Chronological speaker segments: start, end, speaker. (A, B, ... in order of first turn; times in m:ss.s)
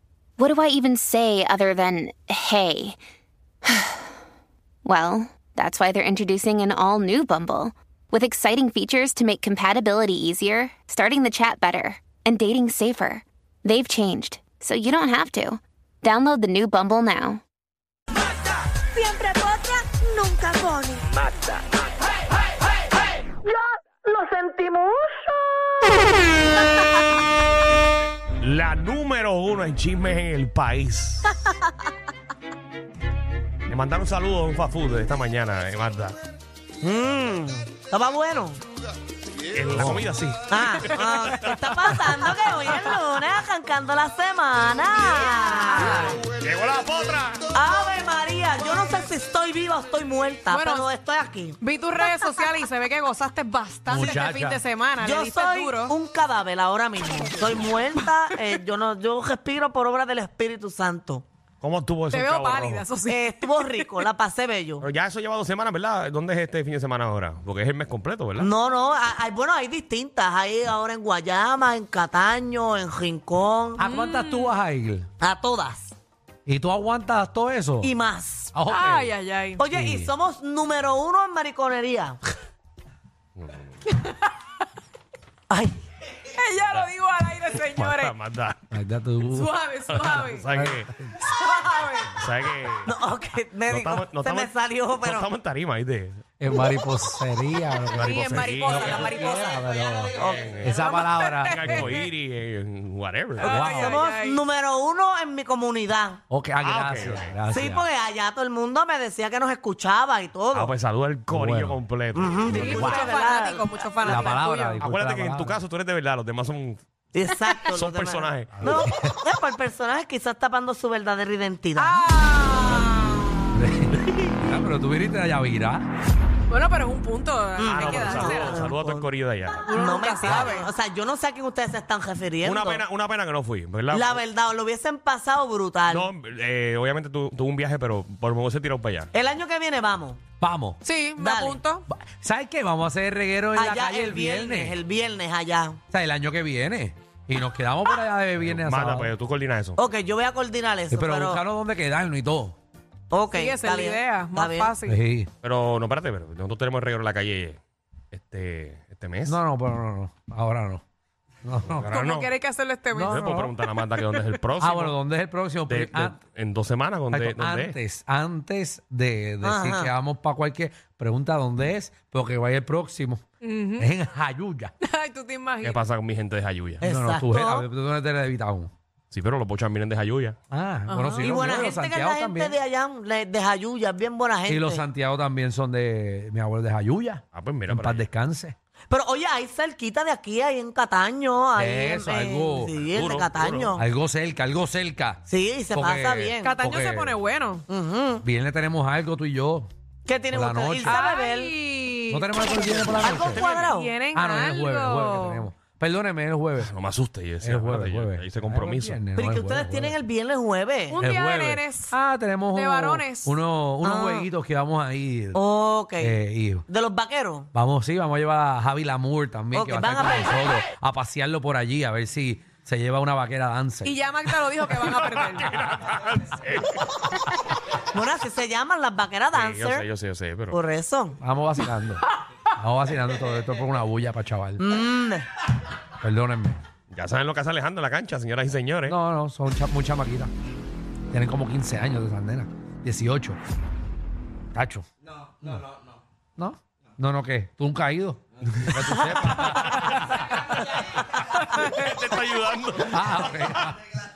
0:00.4-0:03.0 A
0:03.7-0:04.1 A
0:04.8-0:17.4 A
0:19.0-0:21.0 B
0:24.1-0:24.8 B
0:28.4-0:31.3 C
0:33.7-0:36.2 C
0:36.8-0:38.6 B
0:39.5-0:41.9 C
0:40.5-0:46.2 B
0:46.3-0:47.5 C
0:47.5-0:51.6 B
0:50.5-0:50.9 D
0:51.6-0:55.9 D
0:53.9-0:54.6 E
0:55.0-1:01.2 B
1:01.6-1:02.9 C
1:02.1-1:04.0 D
1:03.0-1:04.8 B
1:04.8-1:08.5 C
1:08.4-1:13.8 B
1:13.8-1:15.1 E
1:13.8-1:14.5 D
1:15.2-1:15.9 B
1:16.5-1:17.9 E
1:17.8-1:18.6 B
1:18.5-1:19.1 E
1:18.7-1:19.6 D
1:19.6-1:22.2 B
1:19.7-1:20.1 E
1:23.4-1:23.8 C
1:23.9-1:24.3 D
1:25.5-1:25.8 B
1:26.3-1:28.2 D
1:27.7-1:28.6 C
1:28.7-1:29.5 E
1:29.2-1:30.5 D
1:29.9-1:30.9 C
1:30.2-1:31.2 E
1:31.3-1:32.1 D
1:32.2-1:32.9 C
1:32.9-1:35.3 B
1:33.7-1:36.2 C
1:36.4-1:41.9 E
1:38.0-1:39.0 C
1:38.0-1:39.7 D
1:40.1-1:40.8 C
1:40.7-1:42.1 D
1:41.4-1:43.6 C
1:43.4-1:44.4 D
1:43.4-1:44.0 E
1:43.7-1:46.2 B
1:46.3-1:47.9 E
1:46.6-1:47.3 C
1:47.5-1:50.7 B
1:50.5-1:52.9 C
1:51.3-1:51.8 E
1:52.1-1:54.2 B
1:52.5-1:54.8 D
1:52.5-1:53.0 E
1:54.0-1:55.6 E
1:54.8-1:56.8 C
1:57.1-2:02.1 B
1:57.6-1:58.8 C
1:58.6-1:59.2 E
2:01.8-2:03.6 D
2:03.6-2:05.9 E
2:06.5-2:08.7 D
2:07.6-2:09.1 B
2:07.7-2:09.8 C
2:09.7-2:10.7 D
2:09.8-2:12.8 B
2:12.4-2:14.2 C
2:13.9-2:16.1 B
2:15.9-2:19.1 C
2:19.1-2:20.2 B
2:20.4-2:20.8 E
2:20.8-2:21.8 D
2:21.2-2:21.6 B
2:21.9-2:24.8 E
2:23.5-2:25.8 B
2:25.9-2:29.1 E
2:28.4-2:29.8 C
2:29.8-2:31.4 B
2:30.9-2:32.6 E
2:33.1-2:34.7 B
2:33.3-2:35.0 D
2:34.8-2:35.3 E
2:35.4-2:37.6 C
2:38.1-2:39.4 C
2:39.2-2:40.8 E
2:41.4-2:41.9 E
2:41.8-2:42.3 C
2:41.8-2:44.3 D
2:42.9-2:43.5 E
2:43.0-2:45.0 C
2:44.6-2:46.2 E
2:45.7-2:47.8 C
2:47.1-2:53.2 E
2:49.4-2:49.9 B
2:53.4-2:53.9 D
2:53.8-2:54.7 E
2:54.8-2:55.8 D
2:55.6-2:56.9 C
2:56.8-2:57.7 B
2:56.8-2:58.7 E
2:59.1-3:00.4 C
3:00.5-3:02.6 E
3:00.9-3:01.6 D
3:01.2-3:04.9 B
3:04.5-3:08.6 E
3:07.3-3:08.0 C
3:08.9-3:13.8 B
3:11.6-3:12.7 E
3:12.8-3:13.8 C
3:13.8-3:17.2 E
3:15.3-3:16.6 B
3:16.4-3:17.6 D
3:17.7-3:18.2 B
3:18.2-3:19.7 E
3:20.1-3:21.5 B
3:20.3-3:21.0 E
3:20.8-3:25.5 D
3:22.1-3:23.5 E
3:23.0-3:23.9 B
3:23.2-3:23.7 C
3:24.1-3:26.7 E
3:26.6-3:29.0 C
3:27.4-3:30.0 E
3:29.2-3:31.0 B
3:30.9-3:32.0 D
3:31.0-3:35.4 E
3:32.5-3:33.4 D
3:33.8-3:34.3 B
3:35.3-3:36.2 B
3:36.0-3:36.7 E
3:36.7-3:37.5 B
3:37.5-3:44.0 E
3:39.5-3:40.5 B
3:43.8-3:45.7 D
3:45.0-3:47.1 C
3:47.9-3:49.9 B
3:49.3-3:50.6 C
3:50.5-3:51.2 B
3:51.2-3:52.0 E
3:52.6-3:54.6 E
3:54.6-3:55.2 B
3:56.0-3:56.6 E
3:56.9-3:59.0 C
3:58.9-4:00.3 E
4:01.1-4:03.4 E
4:04.6-4:04.9 E
4:06.4-4:10.3 E
4:09.4-4:10.7 C
4:11.5-4:13.6 C
4:12.9-4:13.8 E